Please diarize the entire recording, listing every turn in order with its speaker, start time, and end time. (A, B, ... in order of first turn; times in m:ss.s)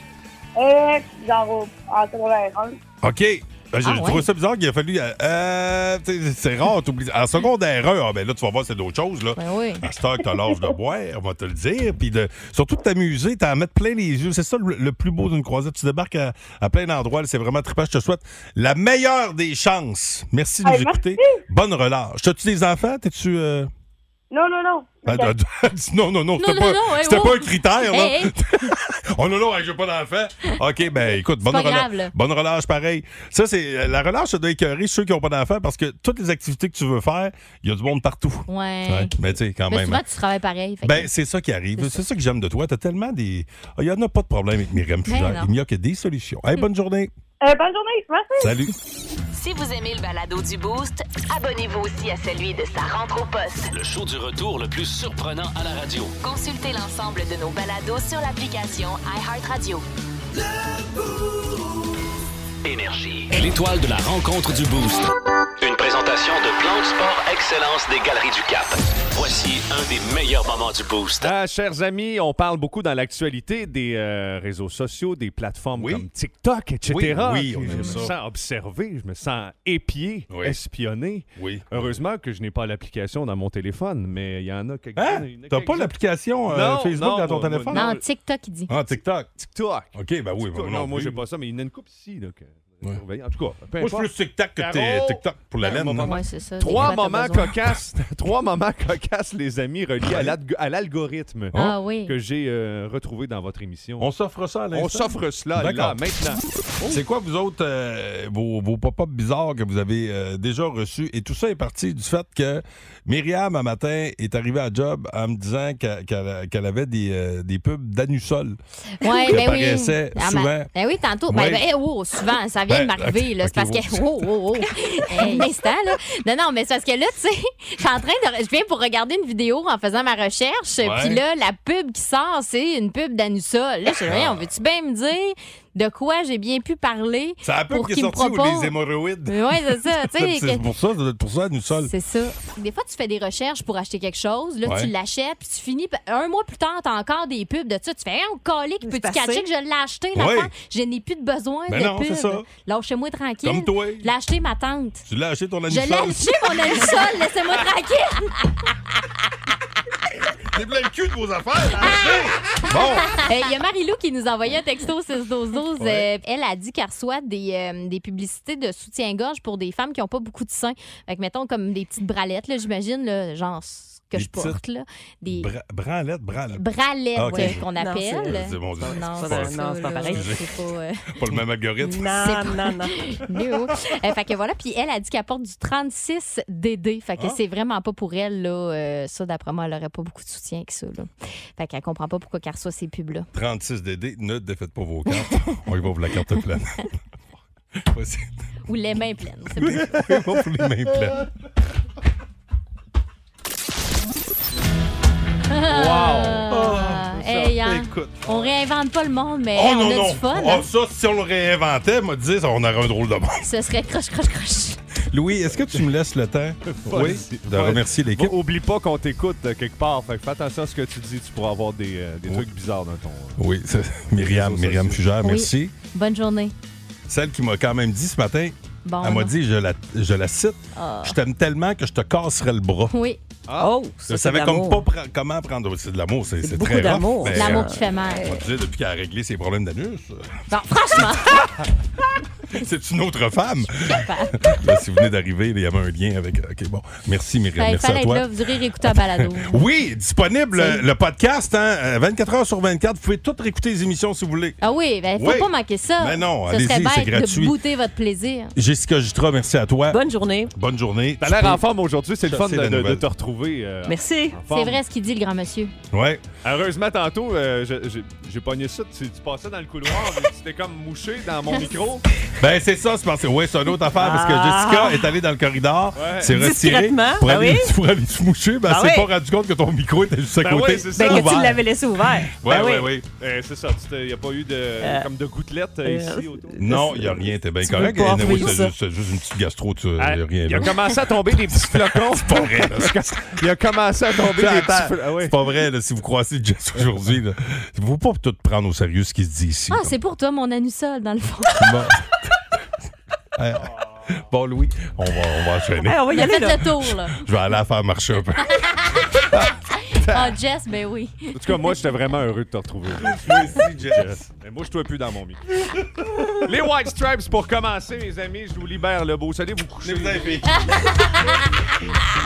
0:00.6-0:02.8 A
0:03.0-0:23.7 B
0:03.8-0:04.3 C
0:09.4-0:09.9 C
0:20.6-0:21.4 A
0:24.3-0:25.3 A
0:25.0-0:40.0 B
0:26.4-0:28.7 C
0:31.4-0:32.1 C
0:38.5-0:39.2 C
0:39.7-0:41.1 C
0:40.8-0:47.1 B
0:45.1-0:45.5 C
0:47.4-0:48.5 A
0:48.4-0:48.7 B
0:49.3-0:53.7 D
0:53.7-0:56.1 E
0:56.2-0:59.8 D
1:02.6-1:11.3 E
1:11.2-1:25.9 F
1:15.8-1:16.1 B
1:16.9-1:18.1 B
1:17.7-1:18.0 C
1:20.3-1:20.6 B
1:21.4-1:22.0 B
1:25.0-1:28.0 B
1:26.4-1:28.0 F
1:27.7-1:28.7 C
1:28.7-1:31.2 B
1:29.5-1:44.1 F
1:33.8-1:36.2 B
1:35.6-1:37.6 C
1:40.0-1:40.4 B
1:41.6-1:42.1 C
1:44.0-1:46.0 B
1:44.7-1:47.0 F
1:46.8-1:58.6 B
1:59.0-2:18.7 C
1:59.3-2:00.7 B
2:01.3-2:01.7 B
2:02.7-2:04.3 B
2:10.8-2:11.2 B
2:14.0-2:14.5 B
2:17.4-2:21.9 B
2:19.3-2:20.6 C
2:21.9-2:35.0 C
2:24.6-2:24.9 B
2:28.8-2:29.4 G
2:30.1-2:30.5 B
2:31.7-2:32.5 B
2:33.4-2:34.1 B
2:35.0-2:36.8 B
2:35.7-2:38.7 C
2:40.5-2:43.2 B
2:43.1-2:55.5 C
2:45.8-2:46.1 B
2:54.1-2:54.6 B
2:55.3-2:57.7 B
2:56.6-3:01.2 C
2:57.3-3:00.3 G
2:58.2-3:00.5 B
3:01.1-3:02.2 B
3:01.8-3:03.0 G
3:02.2-3:13.3 C
3:13.3-3:16.9 B
3:17.8-3:18.3 B
3:18.7-3:20.0 C
3:19.6-3:21.3 B
3:25.5-3:30.7 C
3:25.7-3:26.5 F
3:26.5-3:28.3 B
3:29.6-3:33.5 B
3:33.4-3:34.8 C
3:35.1-3:38.4 B
3:35.4-3:35.9 F
3:36.6-3:43.4 F
3:43.4-3:45.7 B
3:44.2-3:45.1 F
3:45.2-3:46.5 C
3:47.1-3:52.9 B
3:48.8-3:49.3 C
3:50.8-3:51.2 C
3:52.9-3:53.2 C
3:53.5-3:53.7 F
3:53.6-3:54.8 G
3:54.1-4:00.4 B
3:56.4-3:58.4 G
3:57.3-3:58.3 C
4:00.5-4:01.5 C
4:02.5-4:08.3 B
4:03.7-4:04.4 C
4:07.6-4:09.6 C
4:08.8-4:14.6 B
4:10.6-4:10.8 C
4:14.6-4:18.5 C
4:15.2-4:17.6 B
4:18.6-4:20.0 B
4:19.9-4:20.5 G
4:20.5-4:21.6 B
4:21.2-4:24.8 F
4:22.2-4:23.0 B
4:23.9-4:24.4 G
4:24.5-4:25.7 C
4:25.9-4:26.2 B
4:26.4-4:32.0 F
4:32.4-4:41.6 B
4:34.0-4:35.0 G
4:36.0-4:36.4 F
4:36.2-4:37.7 G
4:38.7-4:39.1 G
4:40.4-4:41.5 F
4:41.0-4:42.9 G
4:42.4-4:43.0 B
4:43.2-4:47.2 F
4:44.8-4:45.1 G
4:45.8-4:48.7 G
4:46.6-4:53.4 B
4:48.1-4:48.5 F
4:50.0-4:55.4 F
4:54.2-5:00.0 B
4:59.7-5:01.8 C
5:01.6-5:02.0 B
5:03.4-5:06.1 B
5:05.8-5:06.6 G
5:06.1-5:07.1 C
5:07.1-5:08.7 B
5:08.7-5:09.0 C
5:10.0-5:11.3 C
5:11.4-5:15.4 F
5:13.0-5:14.3 B
5:16.0-5:16.6 B
5:16.4-5:20.3 F
5:19.8-5:21.0 B
5:20.6-5:21.4 C